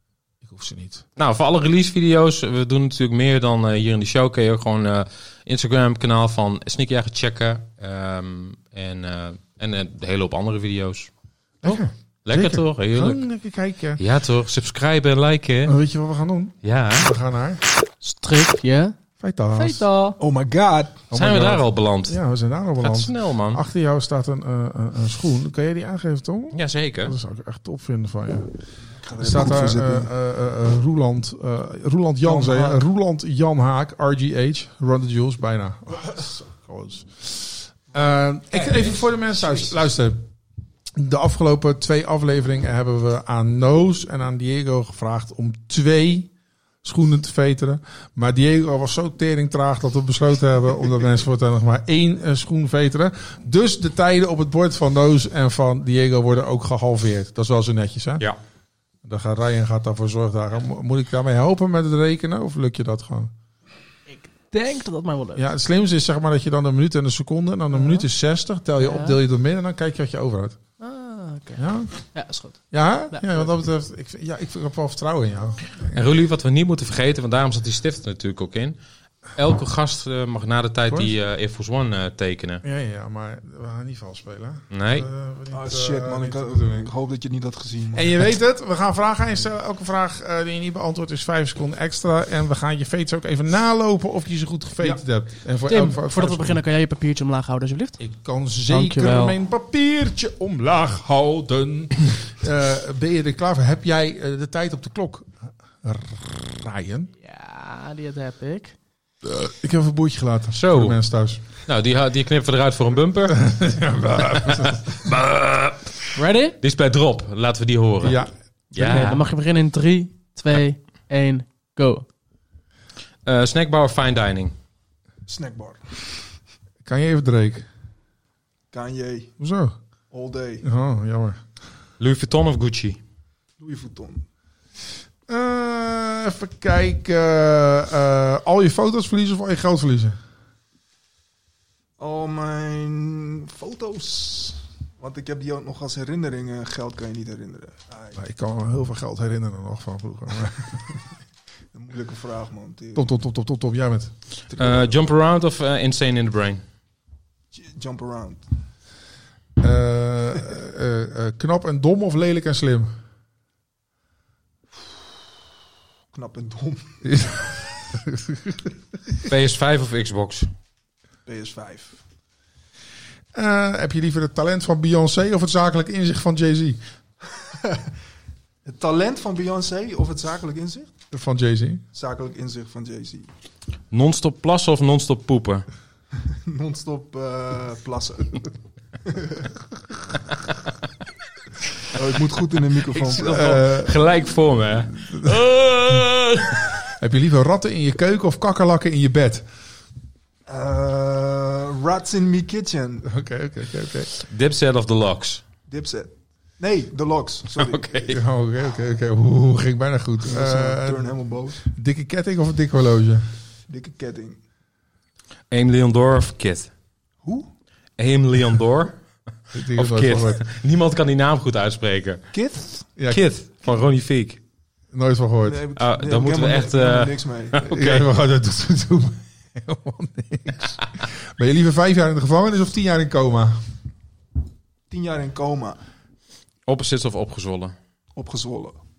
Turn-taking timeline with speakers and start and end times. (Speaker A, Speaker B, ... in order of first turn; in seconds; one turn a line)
Speaker A: 0.4-1.1
Speaker B: 1.2-11.1
Speaker A: 11.6-14.0
Speaker B: 11.6-13.2
Speaker B: 14.0-15.8
Speaker A: 15.7-17.6
Speaker B: 16.6-17.1
Speaker C: 18.0-19.0
Speaker A: 19.2-19.9
Speaker C: 19.5-20.2
Speaker D: 20.2-21.0
Speaker A: 21.1-28.6
Speaker B: 21.1-22.2
Speaker B: 22.8-23.6
Speaker B: 26.5-27.1
Speaker D: 29.0-30.1
Speaker A: 29.2-40.3
Speaker D: 32.2-32.8
Speaker A: 41.0-46.3
Speaker A: 46.8-58.2
Speaker A: 59.0-63.3
Speaker C: 64.1-65.5
Speaker A: 65.4-70.6
Speaker C: 67.7-68.1
Speaker C: 68.8-69.2
Speaker C: 70.8-73.5
Speaker A: 71.6-71.9
Speaker A: 72.7-76.0
Speaker B: 75.9-78.8
Speaker B: 79.3-82.6
Speaker A: 82.6-86.9
Speaker B: 84.7-85.1
Speaker D: 85.5-88.2
Speaker A: 87.9-96.6
Speaker C: 95.7-98.0
Speaker A: 98.0-105.3
Speaker C: 98.7-99.4
Speaker A: 105.8-107.1
Speaker C: 107.2-108.8
Speaker A: 109.2-111.6
Speaker B: 110.5-111.0
Speaker B: 111.5-113.5
Speaker A: 113.3-115.1
Speaker B: 114.3-116.0
Speaker C: 116.2-116.6
Speaker B: 116.6-119.2
Speaker A: 118.0-118.3
Speaker C: 118.8-122.1
Speaker B: 123.2-124.5
Speaker D: 125.3-126.2
Speaker A: 126.8-127.7
Speaker D: 128.7-129.3
Speaker A: 129.4-129.8
Speaker D: 130.1-130.7
Speaker A: 130.6-131.4
Speaker B: 132.0-133.0
Speaker D: 133.6-134.2
Speaker A: 135.3-140.2
Speaker D: 142.0-148.2
Speaker A: 148.2-151.0
Speaker D: 151.7-153.1
Speaker A: 152.9-154.2
Speaker D: 154.5-155.0
Speaker B: 154.6-156.6
Speaker D: 157.5-158.5
Speaker A: 159.6-162.9
Speaker D: 166.1-167.1
Speaker A: 167.1-168.7
Speaker B: 169.3-170.5
Speaker D: 171.3-172.0
Speaker A: 173.3-176.8
Speaker D: 177.5-177.9
Speaker D: 178.6-180.9
Speaker A: 181.1-181.8
Speaker D: 181.9-183.3
Speaker B: 183.9-185.7
Speaker D: 186.3-189.5
Speaker D: 191.9-193.6
Speaker B: 192.9-196.7
Speaker A: 193.2-194.0
Speaker A: 196.9-199.4
Speaker D: 200.5-203.1
Speaker A: 203.1-204.1
Speaker B: 204.3-205.4
Speaker D: 205.7-208.0
Speaker B: 207.6-208.2
Speaker A: 208.1-213.3
Speaker D: 210.2-211.6
Speaker D: 213.7-214.4
Speaker B: 215.5-216.7
Speaker D: 217.2-217.5
Speaker B: 218.0-219.0
Speaker A: 219.5-220.4
Speaker B: 219.7-222.3
Speaker D: 222.3-222.9
Speaker A: 223.0-223.2
Speaker B: 223.1-224.4
Speaker A: 224.9-225.7
Speaker D: 225.5-227.6
Speaker B: 225.8-228.1
Speaker A: 227.6-233.6
Speaker D: 234.9-235.8
Speaker B: 236.7-237.8
Speaker D: 238.2-238.8